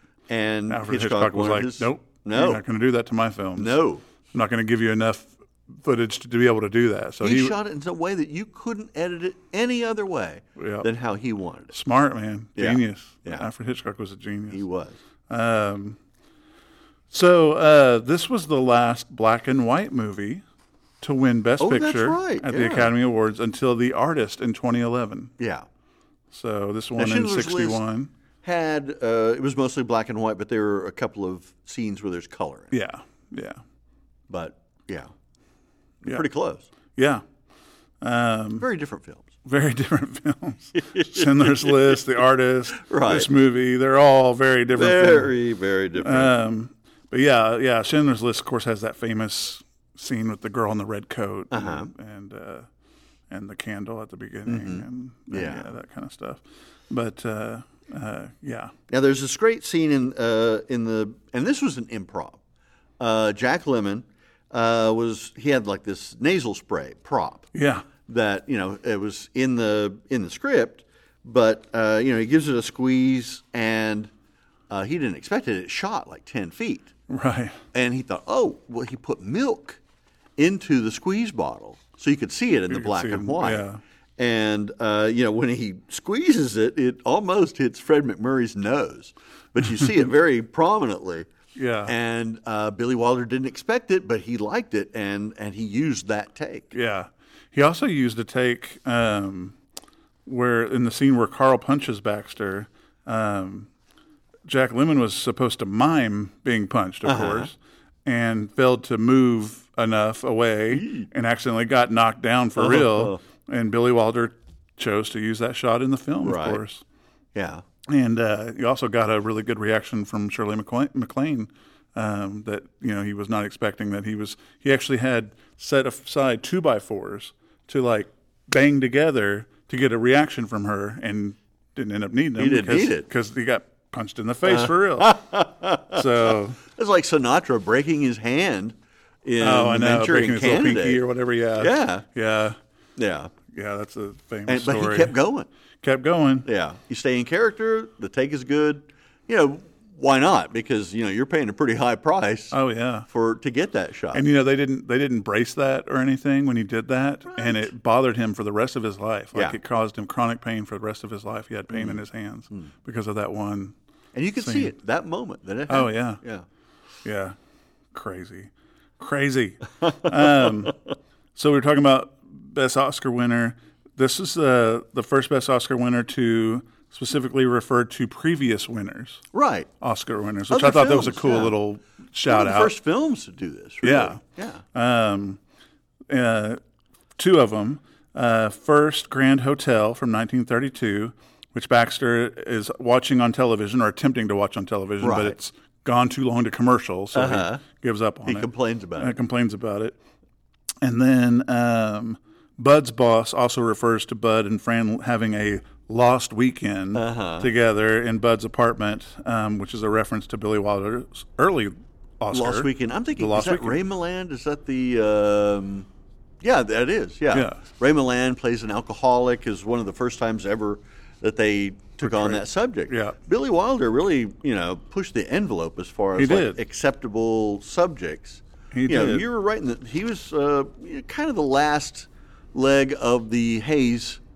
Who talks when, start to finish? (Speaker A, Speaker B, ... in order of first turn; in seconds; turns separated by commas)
Speaker A: 0.3-2.6, Speaker B: 0.7-3.8, Speaker A: 3.5-4.0, Speaker B: 4.3-7.5, Speaker A: 7.2-11.7, Speaker B: 10.6-10.9, Speaker B: 11.7-14.6, Speaker A: 12.6-13.5, Speaker A: 14.5-15.0, Speaker B: 15.3-16.0, Speaker B: 17.1-20.4, Speaker B: 21.0-25.3, Speaker A: 21.6-22.9, Speaker A: 25.4-25.6, Speaker B: 26.3-28.1, Speaker A: 27.0-27.8, Speaker A: 28.4-32.7, Speaker B: 32.7-33.6, Speaker A: 34.3-35.1, Speaker A: 36.0-36.7, Speaker B: 37.0-37.2, Speaker B: 38.0-38.6, Speaker A: 38.6-39.3, Speaker B: 39.4-45.3, Speaker A: 40.8-41.7, Speaker A: 42.8-43.3, Speaker A: 44.7-46.3, Speaker B: 46.0-52.7, Speaker A: 51.5-51.9, Speaker B: 53.3-58.7, Speaker A: 54.5-55.7, Speaker A: 58.9-62.4, Speaker A: 63.0-67.5, Speaker B: 67.5-67.9, Speaker A: 68.0-74.1, Speaker A: 74.7-76.9, Speaker B: 77.1-77.6, Speaker A: 77.7-79.8, Speaker A: 80.4-83.6, Speaker B: 82.7-83.8, Speaker A: 84.2-91.3, Speaker B: 91.5-91.9, Speaker A: 91.8-96.7, Speaker B: 96.7-99.6, Speaker B: 100.2-103.7, Speaker B: 104.4-116.8, Speaker A: 107.0-107.5, Speaker A: 110.7-111.1, Speaker A: 112.6-113.2, Speaker A: 116.2-116.6, Speaker A: 117.3-117.6, Speaker B: 117.8-135.1, Speaker A: 132.4-133.1, Speaker A: 134.4-141.0, Speaker B: 135.9-136.6, Speaker B: 139.4-142.6, Speaker A: 141.6-142.0, Speaker A: 143.0-143.3, Speaker B: 143.5-145.1, Speaker A: 144.5-145.5, Speaker B: 145.8-146.5, Speaker A: 146.4-152.6, Speaker B: 152.5-153.1, Speaker A: 153.1-154.2, Speaker B: 154.1-163.7, Speaker A: 157.3-157.7, Speaker A: 161.7-162.0, Speaker A: 164.1-166.4, Speaker B: 164.4-164.7, Speaker B: 165.7-166.2, Speaker B: 167.0-167.3, Speaker B: 167.9-170.8, Speaker A: 169.8-170.7, Speaker B: 171.3-179.2, Speaker A: 179.3-179.7, Speaker B: 179.8-182.7, Speaker A: 180.5-181.6, Speaker A: 182.2-184.6, Speaker B: 183.8-184.2, Speaker B: 184.7-185.4, Speaker B: 186.1-186.6, Speaker B: 187.2-199.9, Speaker A: 195.0-195.3, Speaker A: 197.1-197.6, Speaker A: 198.2-199.1, Speaker B: 200.8-213.8, Speaker A: 206.9-207.5, Speaker A: 212.3-215.9, Speaker A: 216.4-234.2, Speaker B: 217.3-217.6, Speaker B: 222.0-223.2, Speaker B: 226.2-226.6, Speaker B: 228.7-229.2